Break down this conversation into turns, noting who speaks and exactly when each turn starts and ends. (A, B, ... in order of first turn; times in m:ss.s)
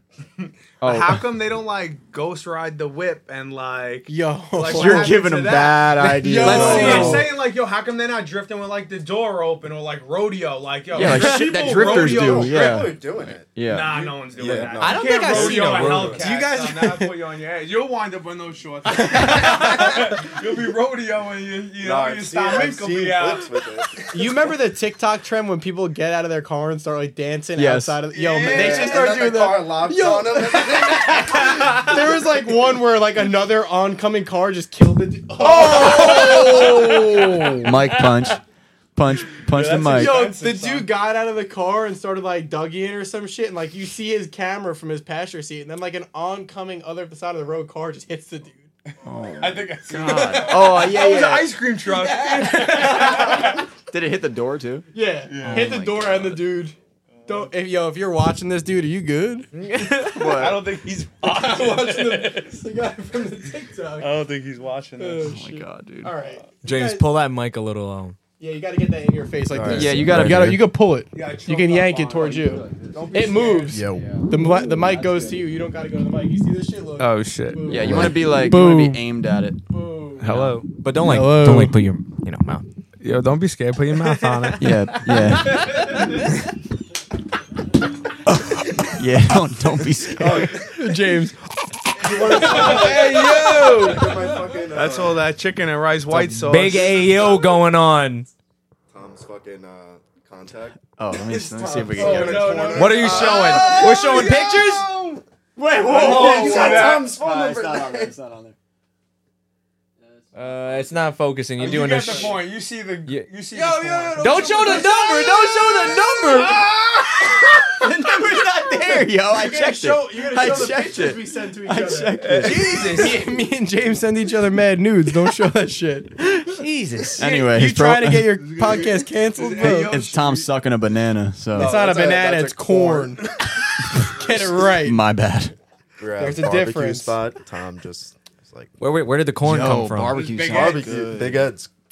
0:00.4-0:12.8 A
0:00.8-0:01.2 B
0:04.1-0:07.3 C
0:04.6-0:07.3 B
0:06.4-0:07.2 D
0:10.9-0:14.0 B
0:11.0-0:12.1 D
0:11.7-0:16.3 E
0:13.6-0:24.3 A
0:14.8-0:16.2 D
0:16.1-0:17.1 C
0:18.9-0:20.2 C
0:21.8-0:24.0 E
0:24.1-0:37.6 C
0:27.6-0:28.1 B
0:28.1-0:29.2 A
0:28.4-0:32.0 E
0:31.1-0:31.9 A
0:35.4-0:38.3 A
0:36.1-0:36.7 B
0:37.6-0:38.4 B
0:39.0-0:40.2 B
0:39.4-0:40.9 A
0:39.9-0:48.7 C
0:48.9-0:53.6 A
0:49.0-0:51.6 B
0:50.0-0:50.9 C
0:51.8-0:53.6 C
0:53.2-0:56.4 B
0:54.9-0:56.8 C
0:55.3-0:55.8 A
0:57.2-0:57.5 A
0:57.3-0:59.5 C
0:59.5-1:02.6 A
0:59.8-1:00.1 D
1:00.1-1:00.7 B
1:01.2-1:04.2 C
1:04.0-1:05.3 A
1:05.0-1:07.0 C
1:05.2-1:06.1 B
1:06.6-1:08.2 D
1:08.4-1:19.1 C
1:09.5-1:10.4 E
1:09.7-1:10.6 B
1:11.1-1:13.9 A
1:13.7-1:15.4 B
1:13.7-1:14.1 E
1:17.0-1:17.9 A
1:17.7-1:20.6 B
1:19.7-1:20.3 C
1:20.2-1:20.7 A
1:20.7-1:22.7 D
1:21.0-1:21.8 C
1:23.0-1:24.6 A
1:24.0-1:26.2 D
1:24.6-1:26.0 B
1:28.3-1:30.6 B
1:30.2-1:30.7 E
1:30.4-1:34.5 C
1:32.0-1:35.3 E
1:32.1-1:34.1 A
1:34.7-1:37.0 A
1:36.1-1:36.6 B
1:36.5-1:38.3 D
1:38.9-1:40.8 E
1:41.0-1:42.6 B
1:41.3-1:42.4 A
1:41.6-1:45.2 E
1:41.9-1:43.9 C
1:42.7-1:44.9 D
1:43.1-1:43.8 A
1:45.6-1:48.6 B
1:45.9-1:48.1 E
1:45.9-1:47.1 A
1:50.3-1:52.4 D
1:51.6-1:54.7 A
1:52.0-1:52.3 C
1:53.5-1:56.0 C
1:54.2-1:56.6 D
1:56.3-1:57.6 A
1:57.7-2:02.9 B
1:59.3-2:06.5 C
2:02.2-2:03.2 A
2:06.5-2:07.2 D
2:07.2-2:08.6 B
2:07.2-2:10.0 C
2:08.4-2:10.5 A
2:09.6-2:11.8 B
2:11.5-2:13.4 E
2:11.6-2:13.3 C
2:14.1-2:15.0 C
2:14.5-2:15.6 B
2:16.0-2:18.7 E
2:16.2-2:17.2 C
2:18.8-2:20.3 D
2:19.4-2:21.5 B
2:20.1-2:20.9 A
2:20.4-2:21.7 E